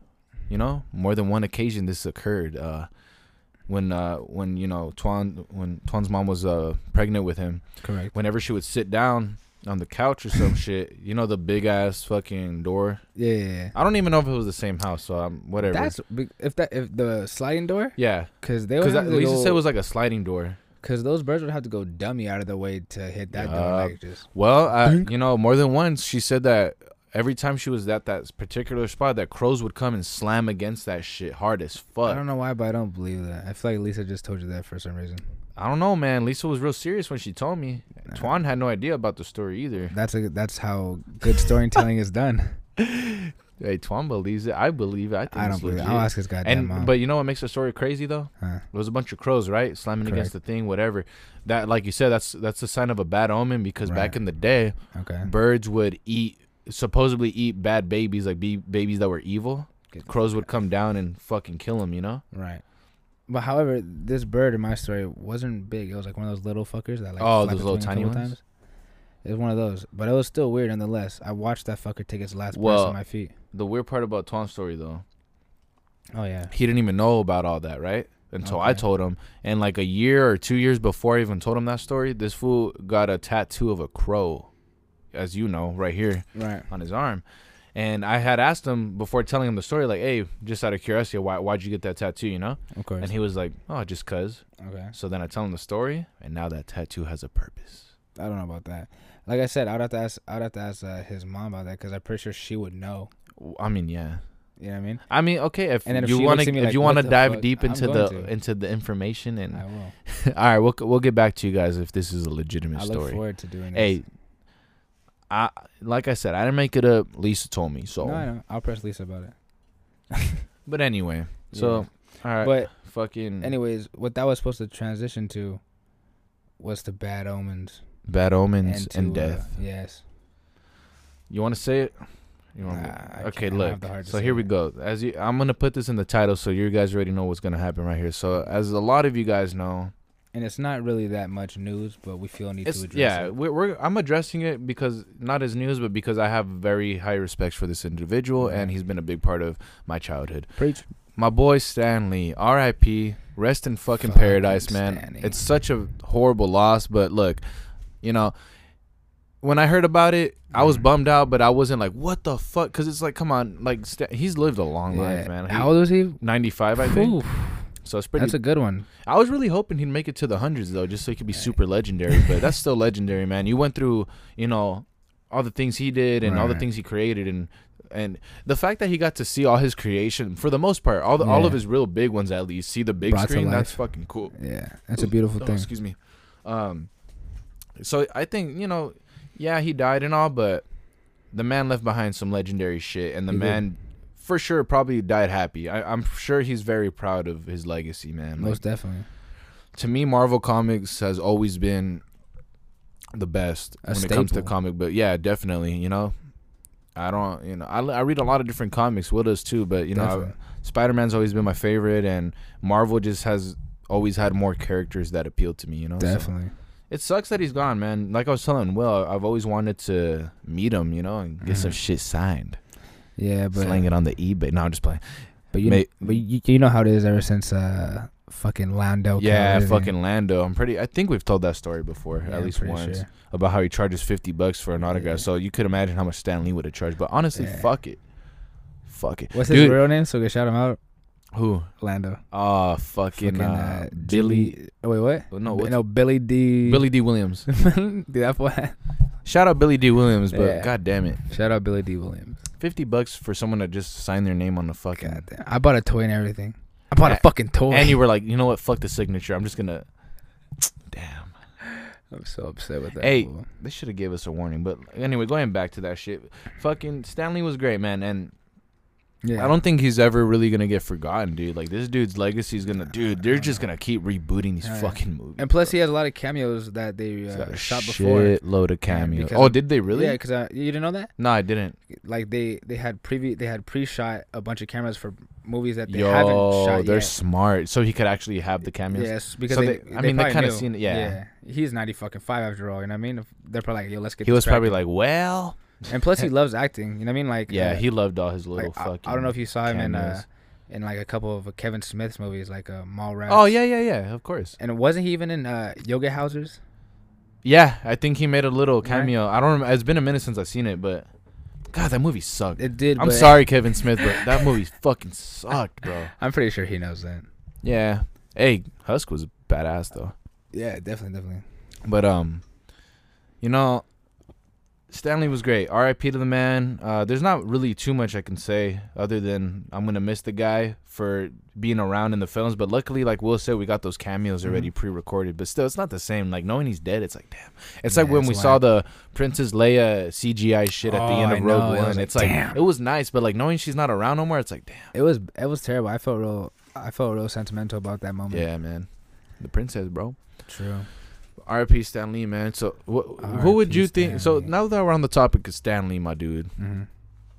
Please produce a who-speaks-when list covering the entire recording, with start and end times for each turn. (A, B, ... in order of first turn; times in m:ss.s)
0:00.5-0:02.9 A
0:03.7-0:13.0 A
0:07.8-0:08.1 B
0:13.2-0:13.7 B
0:13.7-0:15.9 A
0:15.6-0:19.6 B
0:18.0-0:20.6 A
0:20.8-0:25.1 B
0:23.3-0:32.2 A
0:32.0-0:35.2 B
0:35.6-0:39.9 A
0:39.9-0:42.6 B
0:42.8-1:02.2 A
0:45.3-0:46.9 B
0:48.4-0:48.6 B
0:50.0-0:50.3 B
0:53.8-0:54.2 B
0:54.9-0:55.3 B
0:59.9-1:00.2 B
1:02.3-1:02.6 B
1:03.3-1:08.4 B
1:07.2-1:08.3 A
1:09.2-1:13.3 B
1:12.5-1:13.0 A
1:13.5-1:15.0 A
1:16.1-1:16.5 B
1:16.5-1:24.5 A
1:18.4-1:18.8 B
1:25.1-1:27.2 A
1:26.3-1:26.7 B
1:27.7-1:37.9 A
1:32.7-1:33.1 B
1:34.6-1:34.9 B
1:38.2-1:43.1 B
1:43.4-1:44.2 A
1:44.6-1:45.0 B
1:45.1-1:53.2 A
1:45.8-1:48.3 B
1:49.5-1:49.9 B
1:52.7-1:54.0 B
1:53.7-1:54.0 A
1:55.3-1:58.2 A
1:58.0-1:59.3 B
2:00.6-2:03.6 A
2:01.5-2:02.7 B
2:03.4-2:05.6 B
2:06.6-2:07.8 B
2:08.1-2:09.5 A
2:08.6-2:10.0 B
2:11.3-2:12.0 A
2:12.5-2:19.9 A
2:12.7-2:14.5 B
2:20.3-2:23.3 B
2:22.6-2:30.5 A
2:28.4-2:28.7 B
2:30.6-2:30.8 B
2:31.2-2:37.4 A
2:34.0-2:35.4 B
2:38.0-2:38.3 A
2:39.4-2:47.2 A
2:44.9-2:46.2 B
2:46.8-2:48.9 B
2:47.8-2:48.4 A
2:49.0-3:04.3 A
2:56.2-2:56.6 B
3:01.2-3:01.6 B
3:03.0-3:03.8 B
3:04.3-3:05.7 B
3:05.0-3:06.9 A
3:07.8-3:10.6 A
3:11.3-3:18.6 A
3:13.3-3:13.6 B
3:18.4-3:19.1 B
3:19.7-3:22.0 A
3:23.1-3:26.1 A
3:23.8-3:24.5 B
3:27.0-3:36.3 A
3:29.9-3:30.3 B
3:36.0-3:36.5 B
3:36.9-3:42.6 A
3:41.4-3:41.8 B
3:43.2-3:43.8 B
3:43.5-3:45.0 A
3:45.5-3:49.9 B
3:45.6-3:46.2 A
3:49.2-3:58.0 A
3:52.2-3:53.1 B
3:54.9-3:55.2 B
3:57.4-3:57.7 B
3:58.9-3:59.8 A
3:59.3-4:00.8 B
4:01.3-4:01.7 A
4:01.8-4:02.2 B
4:02.3-4:04.6 A
4:03.2-4:06.9 B
4:05.3-4:05.8 A
4:06.6-4:07.4 A
4:07.5-4:08.8 B
4:09.2-4:11.2 A
4:10.3-4:10.7 B
4:11.3-4:12.4 B
4:12.6-4:15.2 A
4:15.0-4:18.0 B
4:17.0-4:19.8 A
4:20.6-4:21.3 A
4:21.7-4:23.5 B
4:23.0-4:28.3 A
4:29.2-4:29.6 B
4:29.4-4:35.7 A
4:33.2-4:33.6 B
4:34.6-4:41.1 B
4:37.3-4:40.2 A
4:41.2-4:41.8 A
4:41.9-4:47.2 B
4:45.9-4:51.2 A
4:48.9-4:54.8 B
4:54.2-4:55.6 A
4:55.9-4:57.8 B
4:57.5-5:00.2 A
4:58.6-5:03.6 B
5:03.3-5:04.6 A
5:04.6-5:06.6 B
5:07.4-5:11.1 A
5:08.8-5:09.1 B
5:11.7-5:16.1 A
5:12.6-5:14.4 B
5:16.2-5:17.3 B
5:17.6-5:20.1 A
5:20.5-5:21.4 B
5:21.8-5:22.4 A
5:23.4-5:23.8 A
5:24.9-5:44.9 A
5:37.9-5:38.6 B
5:40.8-5:42.6 B
5:44.9-5:48.4 B
5:48.3-5:48.9 A
5:49.4-5:50.2 A
5:50.5-5:50.9 B
5:51.4-5:56.5 A
5:53.2-5:54.5 B
5:56.6-5:56.9 B